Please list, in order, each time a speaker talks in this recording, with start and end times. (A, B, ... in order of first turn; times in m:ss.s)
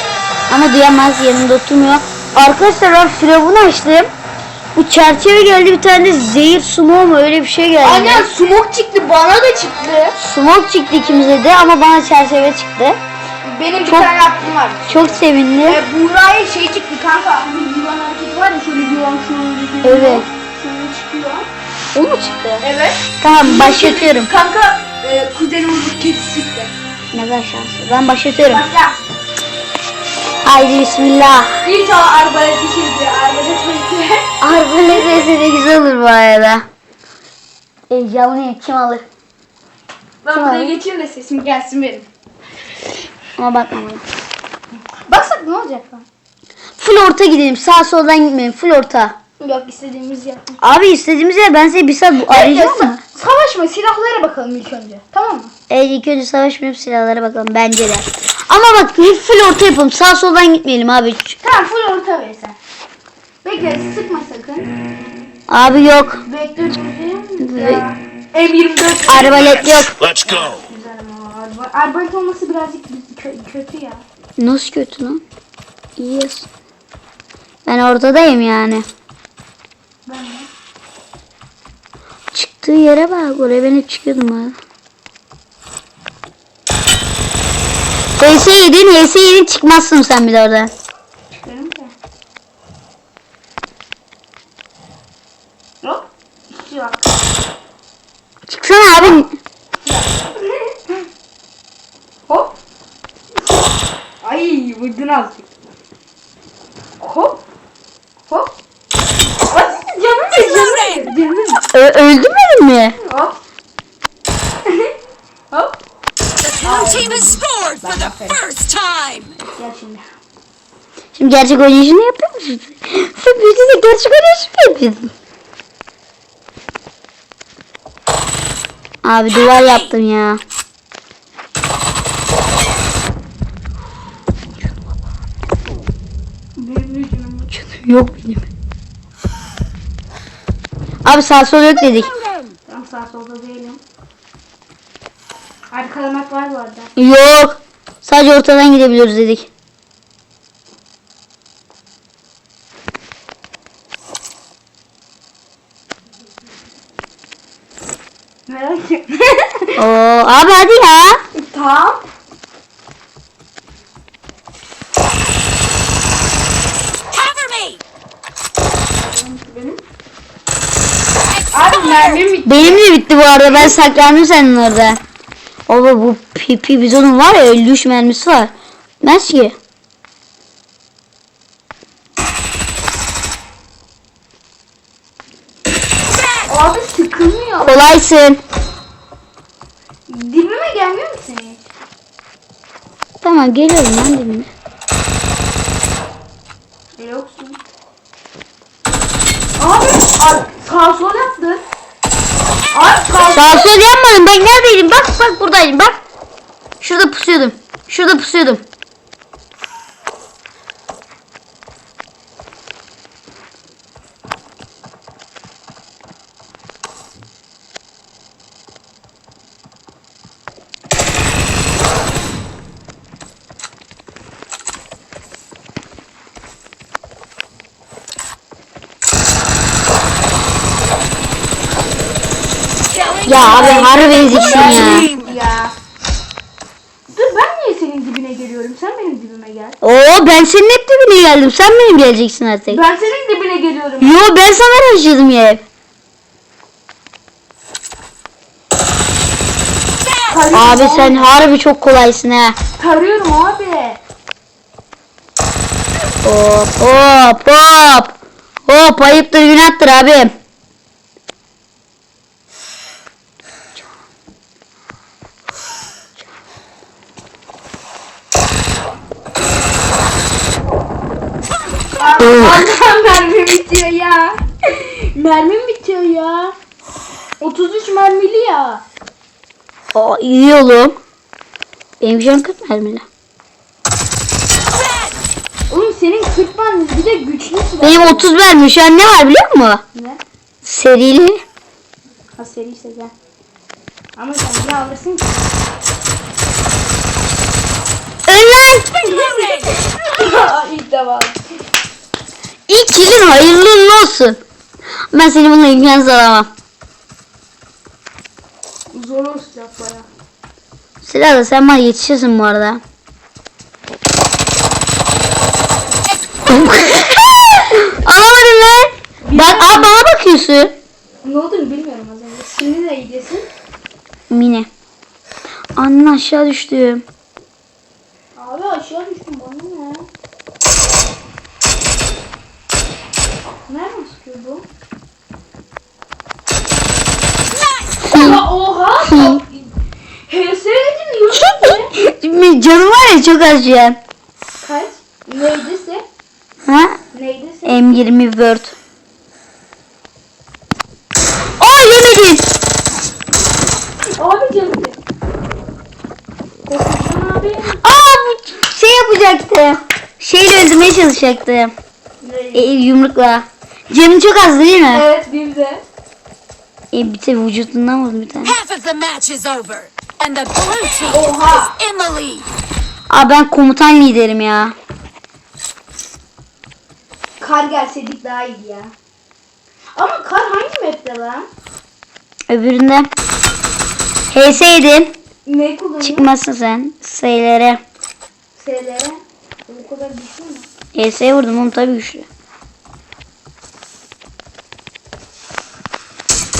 0:00.5-0:04.1 A
0:04.8-0:08.3 A
0:07.8-0:10.2 B
0:10.2-0:13.0 A
0:13.4-0:21.5 B
0:14.9-0:15.8 A
0:19.8-0:20.2 A
0:21.9-0:22.6 A
0:22.6-0:26.7 B
0:23.2-0:24.3 A
0:27.1-0:28.6 A
0:28.5-0:29.0 B
0:30.4-0:31.5 A
0:31.6-0:34.3 B
0:34.4-0:36.6 A
0:37.9-0:39.0 A
0:40.2-0:42.1 B
0:40.3-0:40.7 A
0:43.4-0:44.0 A
0:45.1-0:46.0 B
0:46.8-0:49.2 A
0:49.4-0:50.6 B
0:50.6-0:53.0 A
0:52.3-0:55.5 B
0:55.7-1:01.4 A
1:01.4-1:02.6 B
1:03.4-1:04.9 B
1:05.5-1:06.2 A
1:06.2-1:09.6 B
1:07.4-1:07.8 A
1:09.1-1:10.0 A
1:10.2-1:14.0 B
1:14.4-1:15.2 A
1:16.0-1:16.5 A
1:17.6-1:18.8 A
1:20.0-1:20.5 B
1:22.3-1:24.6 A
1:28.2-1:30.7 A
1:31.3-1:31.9 B
1:35.8-1:37.1 B
1:38.5-1:39.3 A
1:39.8-1:41.0 B
1:42.3-1:42.5 B
1:44.2-1:45.4 B
1:47.0-1:47.4 B
1:48.3-1:48.5 B
1:49.5-1:51.6 B
1:51.7-1:53.0 A
1:53.0-1:53.4 B
1:54.7-1:54.9 B
1:55.5-1:55.8 B
1:56.5-1:58.5 B
1:58.5-1:59.3 C
1:59.5-2:00.1 B
2:01.1-2:05.1 A
2:09.0-2:10.4 A
2:16.6-2:17.5 B
2:17.5-2:18.4 A
2:21.0-2:22.1 A
2:22.7-2:23.8 B
2:25.7-2:26.9 B
2:27.0-2:29.5 A
2:38.5-2:39.8 B
2:39.8-2:41.2 A
2:41.3-2:42.0 B
2:47.2-2:47.7 C
2:49.0-2:49.8 B
2:51.5-2:52.9 B
2:52.4-2:55.0 A
2:53.5-2:53.8 B
2:55.7-2:59.5 A
3:06.5-3:07.9 B
3:07.6-3:08.4 A
3:10.1-3:11.6 B
3:13.2-3:14.5 A
3:17.0-3:17.6 B
3:19.6-3:21.6 B
3:22.7-3:23.7 B
3:23.3-3:26.0 A
3:26.8-3:28.6 A
3:53.2-3:55.1 A
3:53.3-3:55.7 B
3:57.1-3:59.8 B
3:59.8-4:02.8 A
4:02.7-4:04.2 B
4:04.0-4:05.6 A
4:10.3-4:11.3 B
4:10.5-4:12.6 A
4:12.8-4:14.0 B
4:16.2-4:18.1 A
4:18.7-4:20.3 A
4:32.0-4:36.5 B
4:37.4-4:38.8 B
4:39.9-4:41.0 A
4:42.0-4:43.0 A
4:45.7-4:48.3 B
4:47.8-4:49.8 A
4:49.9-4:50.2 B
4:50.6-4:51.4 A
4:52.4-4:53.1 B
4:54.2-4:55.5 B
4:58.3-4:59.4 A
4:59.2-5:01.4 B
5:02.7-5:04.4 A
5:05.1-5:06.5 A
5:08.9-5:10.1 B
5:11.0-5:12.8 A
5:16.5-5:20.7 A
5:19.2-5:20.0 B
5:21.2-5:23.5 B
5:24.3-5:24.7 A
5:25.8-5:27.0 A
5:28.4-5:30.1 B
5:33.6-5:34.6 B
5:38.0-5:39.7 B
5:38.1-5:38.4 A
5:39.1-5:39.4 A
5:40.3-5:41.9 B
5:41.3-5:44.0 A
5:44.6-5:46.0 B
5:46.6-5:47.0 A
5:47.1-5:47.9 B
5:47.6-5:48.7 A
5:51.6-5:52.5 A
5:54.2-5:55.0 B
5:56.6-5:57.8 B
5:57.8-6:01.7 A
6:02.2-6:02.7 B
6:02.5-6:05.0 A
6:04.9-6:05.8 B
6:06.9-6:08.6 A
6:08.6-6:11.0 C
6:11.0-6:11.9 B
6:11.9-6:12.4 C
6:13.1-6:14.7 A
6:17.4-6:18.9 B
6:19.9-6:21.5 B
6:22.5-6:23.1 A
6:24.3-6:25.1 A
6:25.4-6:26.3 B
6:26.0-6:27.8 A
6:28.6-6:30.7 B
6:30.9-6:32.2 A